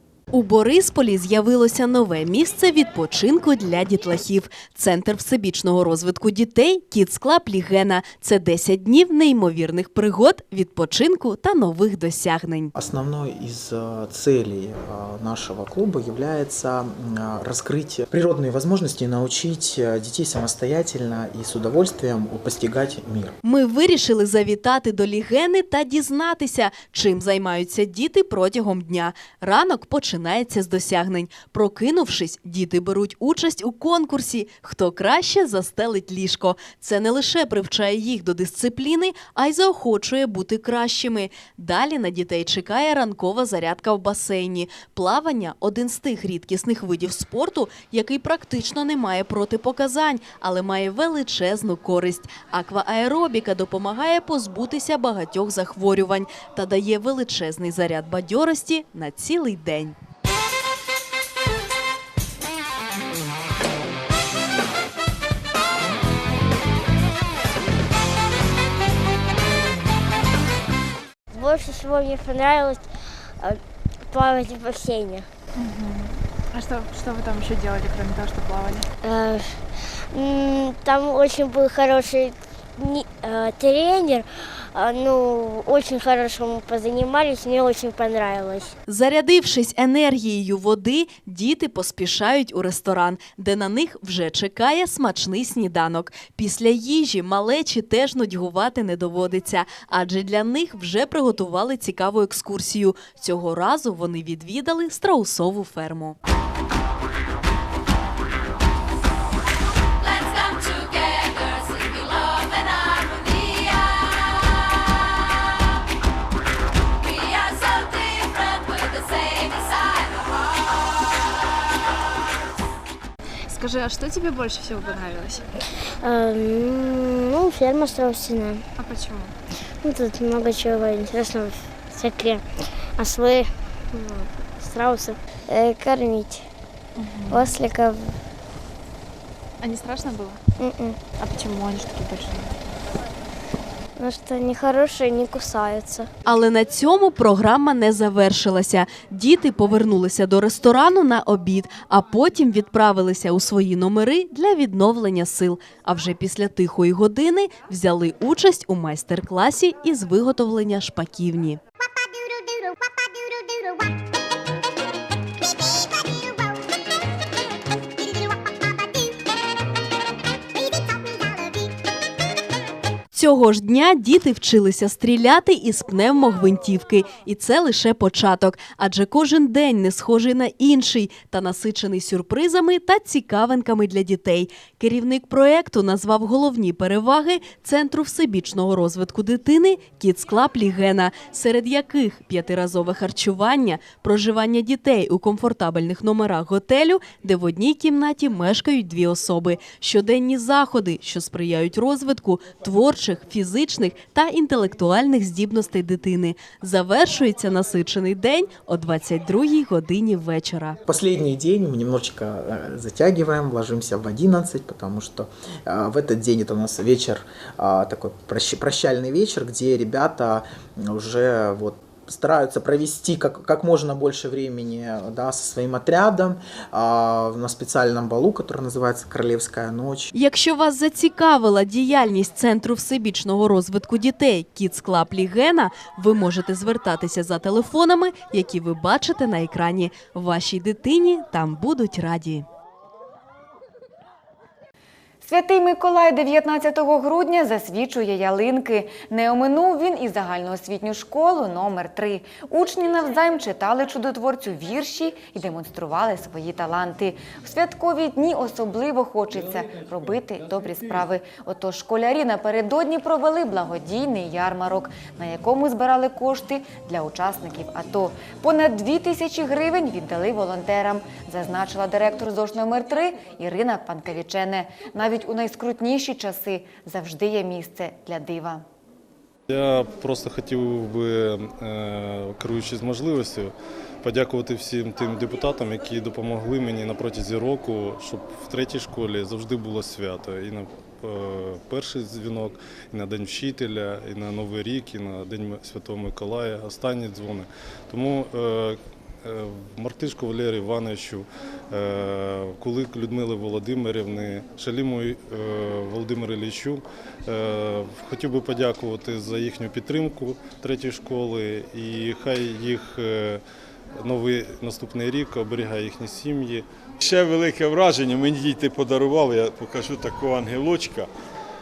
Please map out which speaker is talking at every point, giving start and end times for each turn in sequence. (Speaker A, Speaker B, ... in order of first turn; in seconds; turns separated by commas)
Speaker A: 0.3-12.7, Speaker B: 12.8-23.4, Speaker A: 23.4-60.0, Speaker C: 71.3-75.3, Speaker D: 75.6-78.9, Speaker C: 79.0-88.7, Speaker A: 88.9-106.2, Speaker D: 123.5-125.4, Speaker C: 126.0-128.7, Speaker D: 128.8-129.3, Speaker C: 129.8-136.5, Speaker D: 137.0-137.5, Speaker C: 137.3-138.2, Speaker D: 139.6-140.4, Speaker C: 140.6-141.1, Speaker D: 141.2-142.5, Speaker C: 144.0-146.1, Speaker A: 146.2-161.6, Speaker A: 173.1-210.8, Speaker B: 210.9-230.1, Speaker A: 230.1-242.4, Speaker E: 245.2-278.6, Speaker F: 279.5-313.4, Speaker F: 314.0-316.6, Speaker G: 317.0-321.1